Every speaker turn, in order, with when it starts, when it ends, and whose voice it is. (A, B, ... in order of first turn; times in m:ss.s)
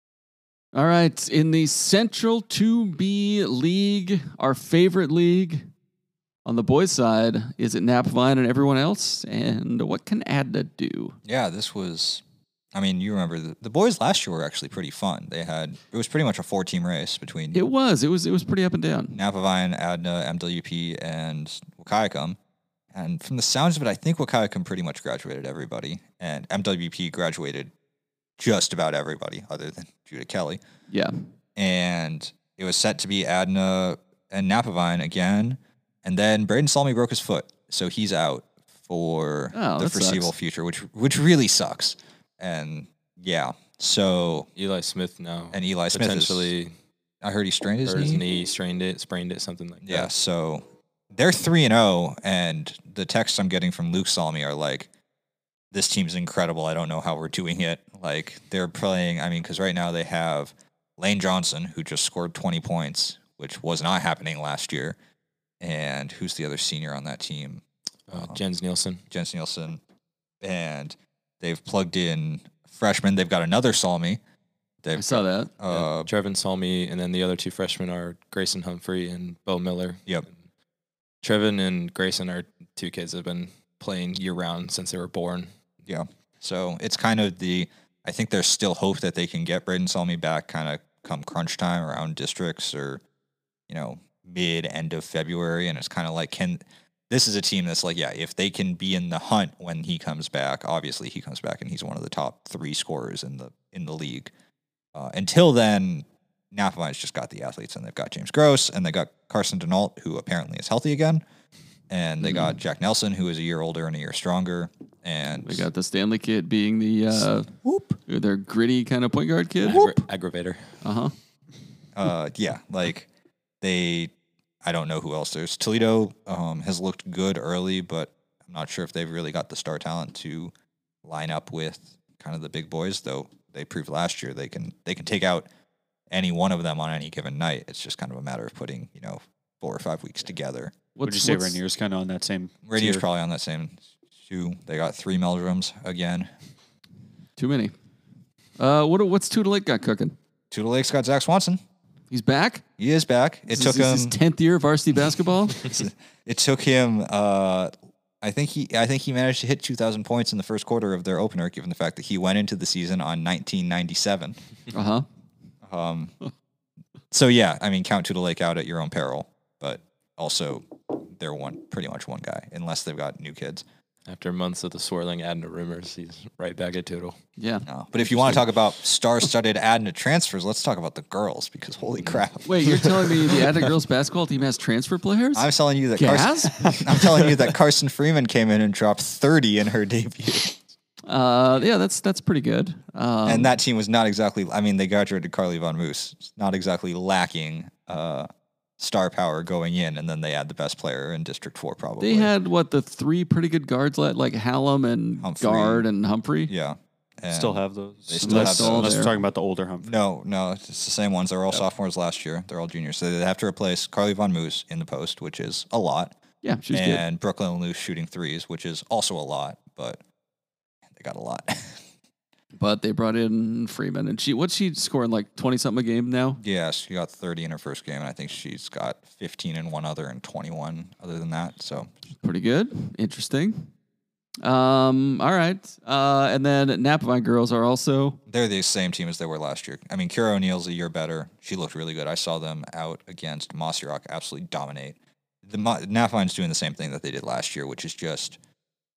0:00.7-0:05.7 A
0:06.4-0:11.2 A
0:11.2-0:12.2 B
0:12.7-0:17.6 B
0:17.5-0:19.2 A
0:19.1-0:22.4 B
0:22.9-0:27.7 B
0:28.4-0:30.6 B
0:30.9-0:31.1 A
0:31.6-0:44.5 B
0:39.5-0:40.3 A
0:44.6-0:46.7 C
0:45.5-0:46.5 B
0:47.2-0:48.2 B
0:47.8-0:50.1 C
0:49.8-0:54.9 B
0:55.7-1:05.0 B
1:05.6-1:08.4 B
1:08.1-1:09.0 C
1:09.1-1:09.8 B
1:10.4-1:14.2 B
1:14.8-1:16.1 B
1:15.0-1:15.5 A
1:15.7-1:20.1 C
1:21.2-1:25.5 C
1:25.8-1:33.0 B
1:33.7-1:44.3 B
1:44.9-1:51.2 B
1:51.9-1:55.6 B
1:55.4-1:57.5 A
1:57.6-1:58.0 B
1:58.1-1:59.9 A
1:59.6-2:00.7 C
2:00.8-2:01.1 A
2:01.9-2:03.1 B
2:03.6-2:04.1 B
2:04.6-2:10.5 B
2:11.0-2:15.5 B
2:16.1-2:20.7 B
2:21.0-2:21.6 A
2:21.0-2:23.0 D
2:22.6-2:26.3 B
2:27.4-2:27.7 A
2:28.6-2:30.2 A
2:30.5-2:31.6 B
2:32.1-2:32.6 A
2:32.8-2:34.2 B
2:33.5-2:35.6 A
2:35.6-2:44.4 B
2:44.7-2:45.0 A
2:45.6-2:46.1 B
2:47.1-2:53.6 B
2:54.0-2:57.2 C
2:57.4-2:58.4 A
2:57.6-3:03.0 B
3:02.1-3:03.6 C
3:02.4-3:07.0 A
3:05.3-3:10.6 B
3:11.0-3:13.5 A
3:13.2-3:22.3 B
3:22.0-3:26.5 A
3:25.2-3:25.9 B
3:26.5-3:29.1 B
3:27.3-3:29.9 D
3:28.2-3:29.1 A
3:29.8-3:36.1 B
3:36.4-3:37.0 A
3:36.7-3:40.0 B
3:40.9-3:41.8 B
3:42.6-3:46.4 A
3:46.4-3:51.9 B
3:52.2-3:53.7 A
3:54.4-3:58.2 A
3:58.3-4:08.4 B